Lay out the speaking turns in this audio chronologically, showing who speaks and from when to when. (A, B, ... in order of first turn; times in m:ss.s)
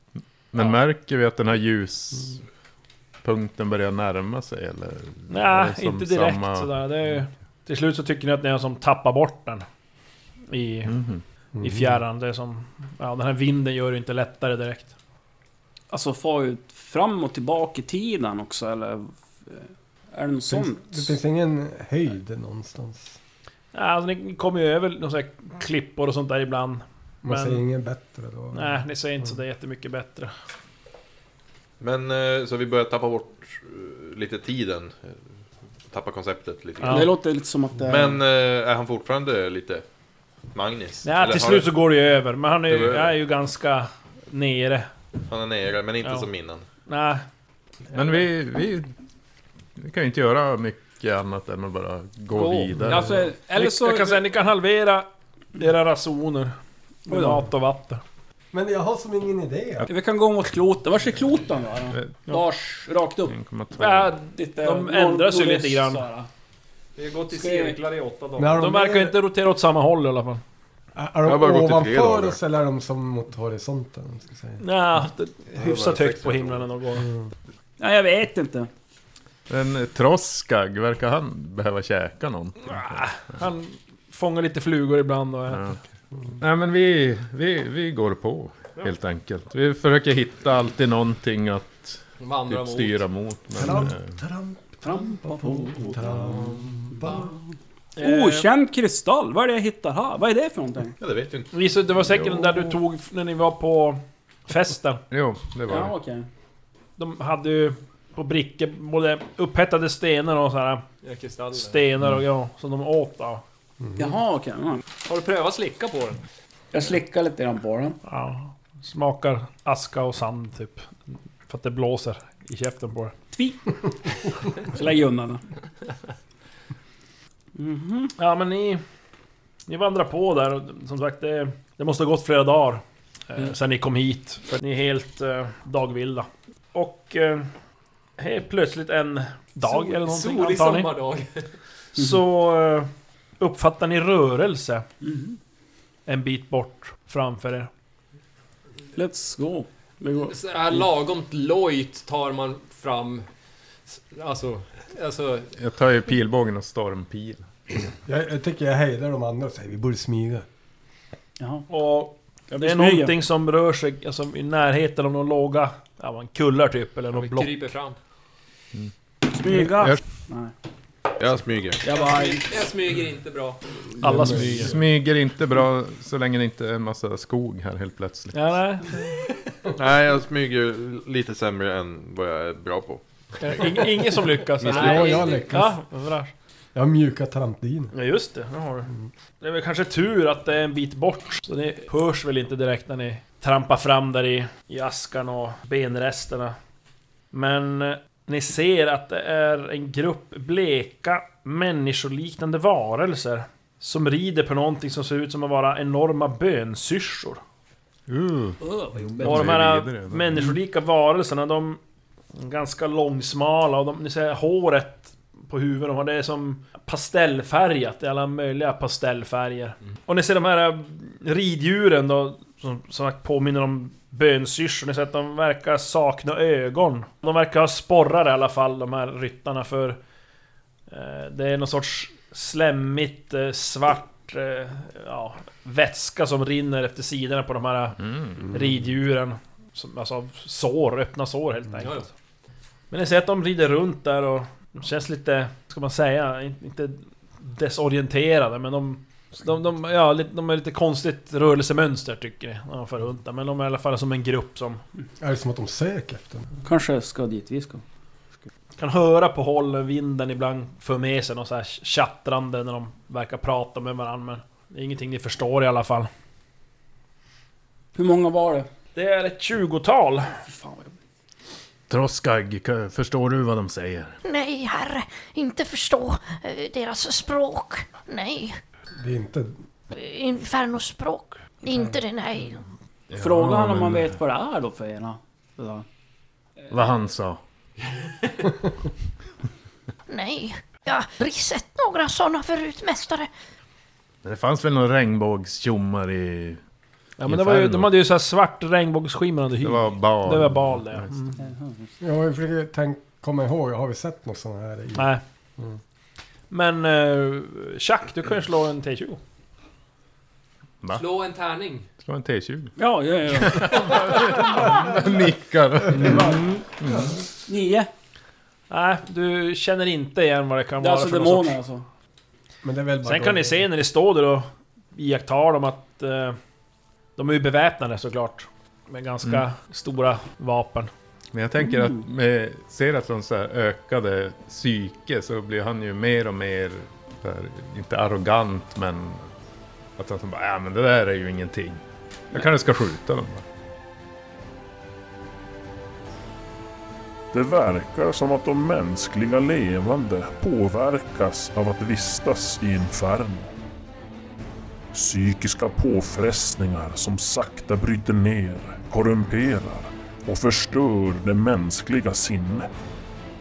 0:00.5-0:02.4 A
0:03.2-0:06.7 A
0:05.3-0:09.6 B
0:10.5-0:11.0 B
0:10.9-0:11.2 A
0:11.6-0:11.9 C
0:11.6-0:14.9 B
0:15.9-0:21.2 D
0:20.5-0:23.2 C
0:23.7-0:27.6 B
0:27.2-0:28.8 C
0:28.5-0:30.3 B
0:31.8-0:35.2 E
0:35.9-0:37.1 E
0:36.8-0:37.1 B
0:36.8-0:38.2 D
0:37.9-0:39.8 E
0:40.5-0:41.7 E
0:41.0-0:44.9 B
0:42.7-0:43.2 E
0:45.3-0:46.6 E
0:46.9-0:47.2 B
0:47.9-0:48.9 A
0:49.8-0:53.3 A
0:52.4-0:56.6 B
0:52.9-0:54.2 D
0:57.1-0:58.0 B
0:57.1-0:57.4 D
0:58.5-0:59.9 C
0:59.9-1:03.3 D
1:02.0-1:02.2 A
1:03.3-1:04.2 A
1:03.8-1:06.0 B
1:04.2-1:06.3 D
1:07.0-1:08.7 F
1:07.3-1:07.8 D
1:08.4-1:09.2 C
1:08.6-1:10.4 B
1:11.0-1:14.6 C
1:11.2-1:12.4 E
1:14.6-1:17.1 B
1:15.5-1:16.7 E
1:17.0-1:17.2 C
1:17.8-1:18.7 D
1:19.5-1:23.4 A
1:22.7-1:25.7 B
1:25.5-1:25.8 A
1:26.4-1:34.2 A
1:32.2-1:33.1 F
1:33.6-1:37.3 C
1:34.8-1:36.2 D
1:36.2-1:37.1 F
1:38.0-1:38.5 B
1:38.0-1:41.0 D
1:41.0-1:41.5 E
1:41.5-1:45.0 B
1:42.1-1:42.4 A
1:45.1-1:45.9 A
1:45.7-1:46.3 D
1:47.0-1:50.8 B
1:51.0-1:51.8 F
1:51.5-1:53.4 B
1:53.8-1:54.1 C
1:54.0-1:54.8 D
1:55.0-1:56.2 F
1:56.7-1:58.0 D
1:58.0-2:00.9 B
2:01.5-2:03.2 B
2:03.3-2:03.7 D
2:04.6-2:05.4 D
2:07.6-2:08.1 D
2:08.2-2:08.8 B
2:09.7-2:17.5 B
2:18.2-2:20.9 B
2:19.7-2:21.5 F
2:22.0-2:22.9 B
2:23.4-2:24.9 B
2:25.0-2:25.3 D
2:26.1-2:27.7 B
2:29.0-2:30.8 D
2:30.3-2:33.3 F
2:33.9-2:35.6 F
2:35.6-2:37.5 A
2:38.1-2:40.5 C
2:41.4-2:41.7 D
2:41.7-2:47.7 B
2:42.5-2:43.2 D
2:47.2-2:48.0 F
2:49.3-2:50.5 D
2:51.2-2:51.8 E
2:51.8-2:52.7 D
2:51.9-2:53.6 F
2:54.0-2:54.8 B
2:54.0-2:54.7 C
2:54.0-2:58.6 A
2:58.3-2:59.0 B
2:59.7-3:03.8 E
3:03.4-3:06.3 B
3:04.6-3:05.8 C
3:04.6-3:05.5 F
3:06.8-3:07.9 C
3:07.9-3:16.6 B
3:17.3-3:27.4 B
3:28.1-3:30.4 A
3:28.6-3:29.3 D
3:29.2-3:31.8 B
3:32.4-3:50.0 B
3:50.9-4:02.1 B
3:58.0-3:58.4 A
4:01.8-4:02.1 F
4:02.9-4:14.8 B
4:15.2-4:16.5 C
4:16.6-4:17.8 D
4:18.8-4:26.1 B
4:28.0-4:28.7 D
4:29.0-4:30.4 B
4:30.5-4:30.9 D
4:31.9-4:34.2 A
4:34.2-4:38.6 G
4:39.0-4:39.5 C
4:39.9-4:42.6 G
4:43.1-4:44.1 A
4:43.1-4:45.9 D
4:46.7-4:47.4 A
4:50.1-4:53.3 G
4:54.2-4:56.6 A
4:57.2-5:01.4 B
4:57.2-4:58.0 A
4:59.6-5:01.2 A
5:01.4-5:01.9 D
5:02.0-5:05.8 C
5:05.0-5:05.2 B
5:06.5-5:09.2 B
5:10.9-5:11.9 F
5:12.0-5:12.7 A
5:12.8-5:14.1 D
5:13.3-5:17.0 A
5:15.9-5:16.6 D
5:17.5-5:17.9 D
5:18.7-5:21.6 B
5:20.8-5:21.8 D
5:22.6-5:23.6 C
5:23.0-5:26.4 B
5:27.2-5:30.9 B
5:31.3-5:39.3 A
5:40.0-5:43.4 A
5:47.3-5:53.5 H
5:54.9-6:02.7 H